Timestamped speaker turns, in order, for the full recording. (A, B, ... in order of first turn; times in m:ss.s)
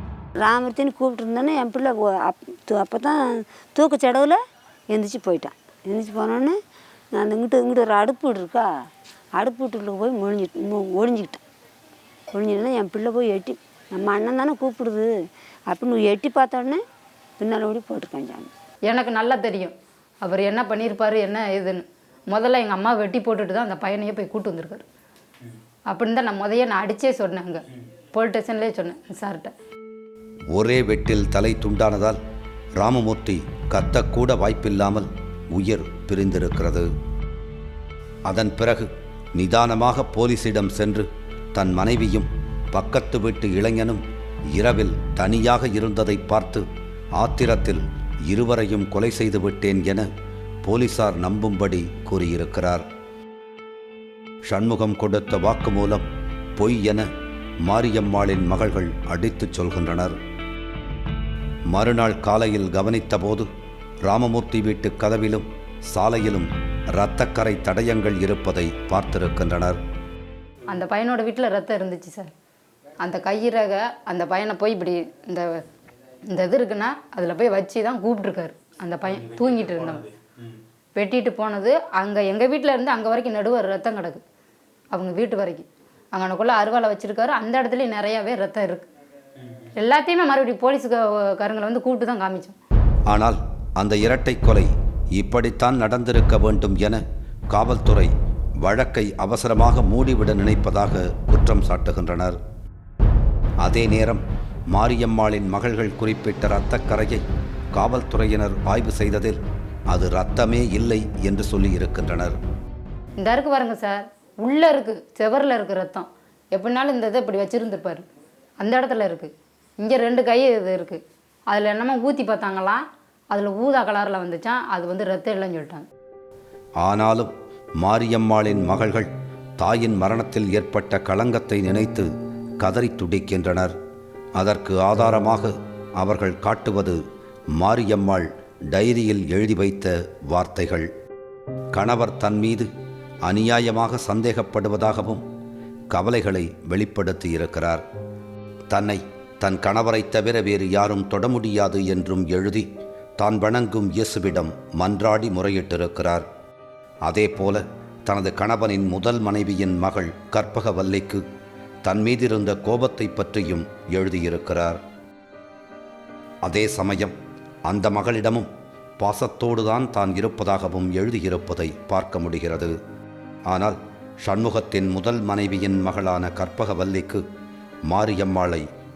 0:00.4-0:06.6 A
0:07.2-0:08.7 A
0:09.4-0:11.4 A
0:12.3-0:15.2 A
0:15.7-0:16.8 A
0:17.4-0:18.5 A
0:18.9-0:24.8 B
0:25.9-0:27.6 B
0:28.1-0:29.5 B
0:30.5-0:32.2 C
0:32.8-0:36.9 C
0:38.3-0:44.0 C
0:44.6-0:46.6 C
0:47.2-0:50.1 C
0:50.6-0:52.8 C
0:54.5-0:56.0 C
0:56.6-0:57.1 C
0:57.6-1:00.2 C
1:01.7-1:03.5 C
1:04.1-1:09.8 C
1:10.7-1:12.3 B
1:13.0-1:15.6 B
1:16.3-1:20.1 B
1:21.0-1:24.2 B
1:24.9-1:28.9 B
1:29.8-1:32.6 B
1:33.1-1:42.4 C
1:43.6-1:47.2 C
1:47.8-1:52.4 C
1:53.2-1:58.1 B
1:58.6-2:05.9 B
2:06.8-2:07.3 C
2:07.8-2:12.1 C
2:12.6-2:13.7 C
2:14.4-2:17.0 C
2:17.6-2:20.9 C
2:21.7-2:22.7 C
2:23.3-2:25.2 C
2:25.9-2:27.8 C
2:28.7-2:32.7 C
2:33.2-2:36.2 C
2:37.0-2:41.2 C
2:41.8-2:44.8 C
2:46.4-2:47.2 C
2:47.7-2:48.5 C
2:49.0-2:52.8 C
2:53.5-2:57.2 C
2:57.9-2:58.7 C